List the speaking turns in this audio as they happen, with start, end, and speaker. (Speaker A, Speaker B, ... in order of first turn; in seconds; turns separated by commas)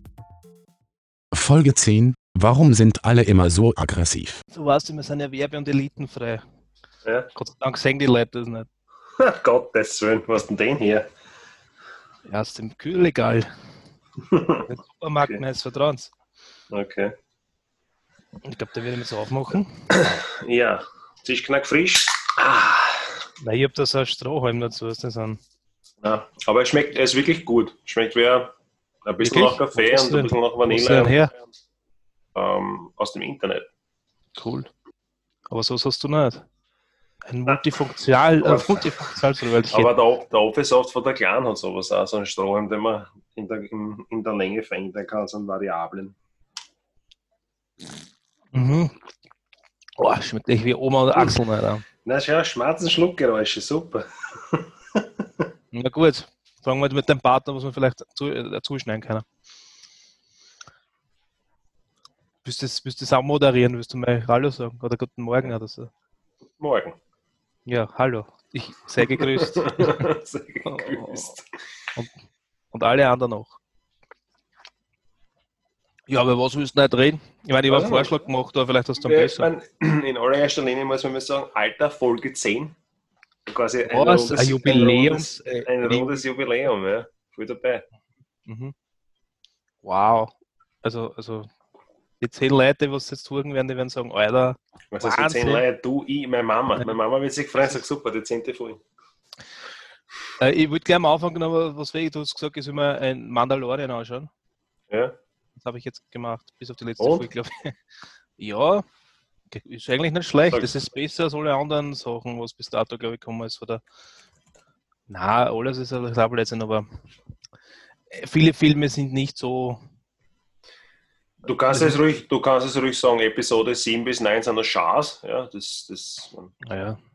Speaker A: 1.3-4.4, Speaker B: 4.5-6.4, Speaker C: 7.0-7.3, Speaker B: 7.3-8.7, Speaker C: 9.2-11.1, Speaker B: 12.3-13.5, Speaker C: 14.2-14.7, Speaker B: 14.7-16.1, Speaker C: 16.7-17.1, Speaker B: 18.4-19.9, Speaker C: 19.9-23.2, Speaker B: 23.4-25.4, Speaker C: 26.0-31.3, Speaker B: 29.2-31.3, Speaker C: 32.3-33.7, Speaker B: 34.4-34.7, Speaker B: 35.5-36.5, Speaker B: 37.3-39.9, Speaker C: 38.4-39.1, Speaker C: 39.7-46.2, Speaker B: 48.5-49.0, Speaker B: 50.0-51.9, Speaker C: 52.0-55.5, Speaker B: 55.7-59.2, Speaker B: 62.4-65.9, Speaker C: 66.6-67.0, Speaker B: 67.7-70.0, Speaker C: 69.0-71.4, Speaker B: 70.7-71.3, Speaker B: 72.7-73.6, Speaker B: 76.1-79.5, Speaker C: 77.7-78.2, Speaker C: 79.0-82.8, Speaker C: 83.5-87.8, Speaker B: 83.9-86.2, Speaker B: 88.5-88.7, Speaker B: 89.8-91.5, Speaker B: 92.2-95.6, Speaker C: 94.9-98.8, Speaker B: 100.4-104.3, Speaker C: 104.9-105.2, Speaker B: 105.6-107.8, Speaker C: 107.0-107.2, Speaker B: 108.4-108.8, Speaker B: 109.5-113.8, Speaker B: 115.1-116.9, Speaker B: 118.1-119.8, Speaker C: 121.4-126.5, Speaker B: 121.7-122.0, Speaker B: 126.6-127.0